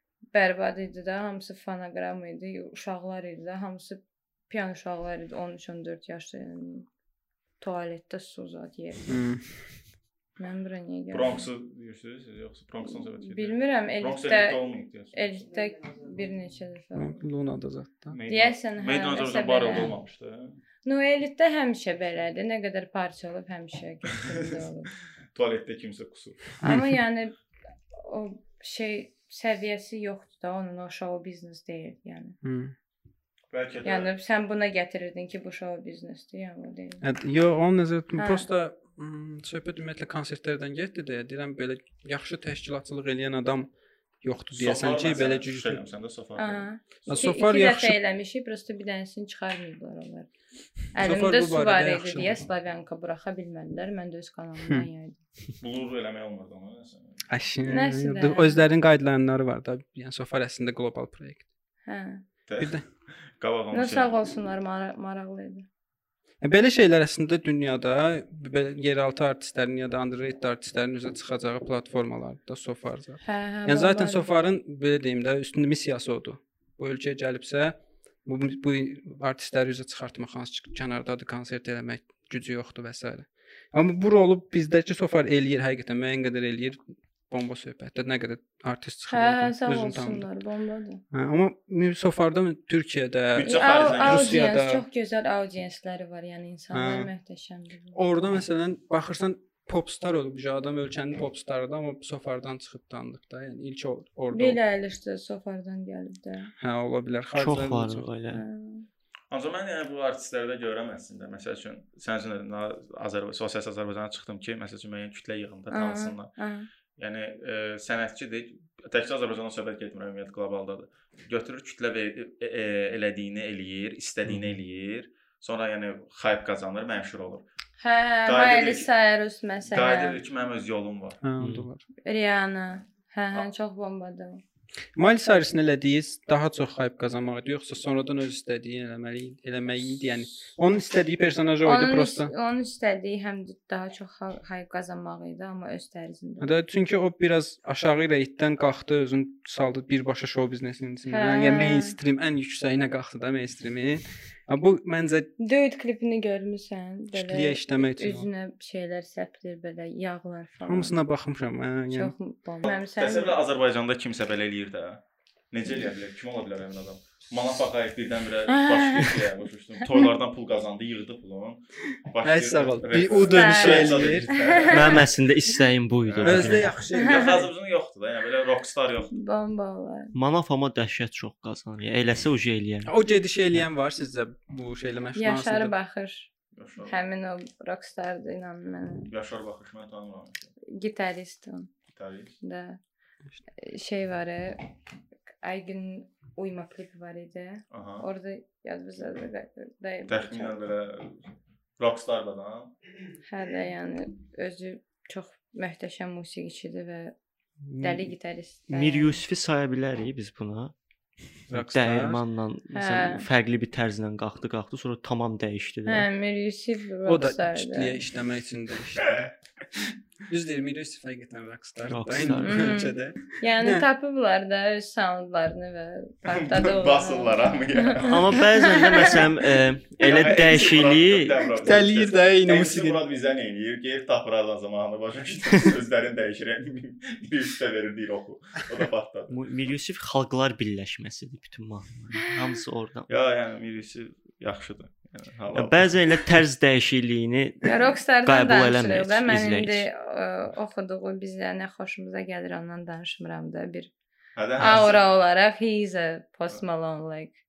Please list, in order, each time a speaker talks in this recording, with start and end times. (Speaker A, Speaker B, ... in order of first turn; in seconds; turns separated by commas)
Speaker A: 0.3-6.9, Speaker A: 7.6-9.2, Speaker B: 9.1-9.6, Speaker A: 10.4-11.4, Speaker C: 11.1-15.3, Speaker A: 12.8-14.6, Speaker A: 15.1-17.2, Speaker B: 17.0-18.2, Speaker C: 18.1-20.6, Speaker A: 18.3-19.9, Speaker A: 20.9-24.9, Speaker C: 25.4-26.5, Speaker A: 26.6-27.4, Speaker A: 27.9-32.4, Speaker B: 32.4-32.7, Speaker C: 33.5-34.1, Speaker A: 33.8-37.0, Speaker B: 37.0-43.7, Speaker A: 38.2-38.5, Speaker B: 44.2-45.8, Speaker C: 44.5-46.7, Speaker A: 46.4-50.3, Speaker B: 47.1-48.0, Speaker A: 50.9-55.2, Speaker B: 51.0-52.4, Speaker C: 55.6-57.2, Speaker B: 57.3-61.5, Speaker A: 57.7-58.6, Speaker A: 61.9-62.2, Speaker C: 62.5-62.8, Speaker C: 63.4-64.2, Speaker A: 63.7-65.7, Speaker B: 66.4-86.8, Speaker A: 73.2-74.3, Speaker B: 87.3-90.3, Speaker A: 89.1-91.0, Speaker B: 91.1-94.8, Speaker C: 93.3-94.4, Speaker A: 93.4-98.0, Speaker B: 96.7-97.1, Speaker B: 97.9-104.6, Speaker A: 104.3-106.5, Speaker B: 106.6-108.1, Speaker D: 107.3-108.4, Speaker A: 108.3-108.9, Speaker C: 109.3-116.3, Speaker A: 115.7-116.7, Speaker C: 117.0-127.5, Speaker D: 124.3-124.6, Speaker A: 127.8-130.2, Speaker C: 128.3-128.9, Speaker C: 129.7-131.2, Speaker B: 131.2-131.8, Speaker D: 131.4-131.7, Speaker A: 132.0-134.4, Speaker B: 135.0-142.3, Speaker A: 141.7-146.5, Speaker B: 146.4-155.3, Speaker A: 151.1-151.9, Speaker A: 155.4-161.0, Speaker B: 157.1-158.3, Speaker B: 160.7-162.1, Speaker A: 161.9-163.4, Speaker C: 162.6-175.1, Speaker A: 168.5-169.2, Speaker B: 172.2-174.3, Speaker A: 173.3-175.0, Speaker D: 174.7-176.7, Speaker C: 176.1-179.1, Speaker B: 176.2-177.5, Speaker A: 177.0-177.4, Speaker A: 179.1-180.1, Speaker D: 180.1-182.9, Speaker B: 182.8-185.7, Speaker A: 185.2-186.3, Speaker C: 186.5-187.0, Speaker A: 186.8-189.1, Speaker C: 189.1-190.5, Speaker A: 190.7-191.7, Speaker C: 191.9-192.3, Speaker A: 192.4-192.8, Speaker A: 193.6-194.6, Speaker A: 195.4-200.6, Speaker C: 197.7-198.1, Speaker C: 200.1-201.3, Speaker C: 201.8-202.7, Speaker A: 203.3-207.2, Speaker B: 207.7-208.1, Speaker A: 207.8-209.2, Speaker D: 208.7-210.7, Speaker B: 211.5-212.2, Speaker D: 211.5-216.1, Speaker A: 212.7-213.2, Speaker A: 215.9-218.0, Speaker B: 217.1-219.3, Speaker B: 220.3-223.9, Speaker D: 221.9-222.9, Speaker A: 222.4-229.2, Speaker C: 226.3-228.4, Speaker D: 228.0-231.5, Speaker C: 230.0-239.4, Speaker B: 231.6-233.0, Speaker D: 239.3-243.1, Speaker C: 243.1-246.2, Speaker D: 245.5-247.7, Speaker A: 247.7-253.9, Speaker D: 248.2-249.9, Speaker C: 254.4-255.0, Speaker A: 254.6-257.4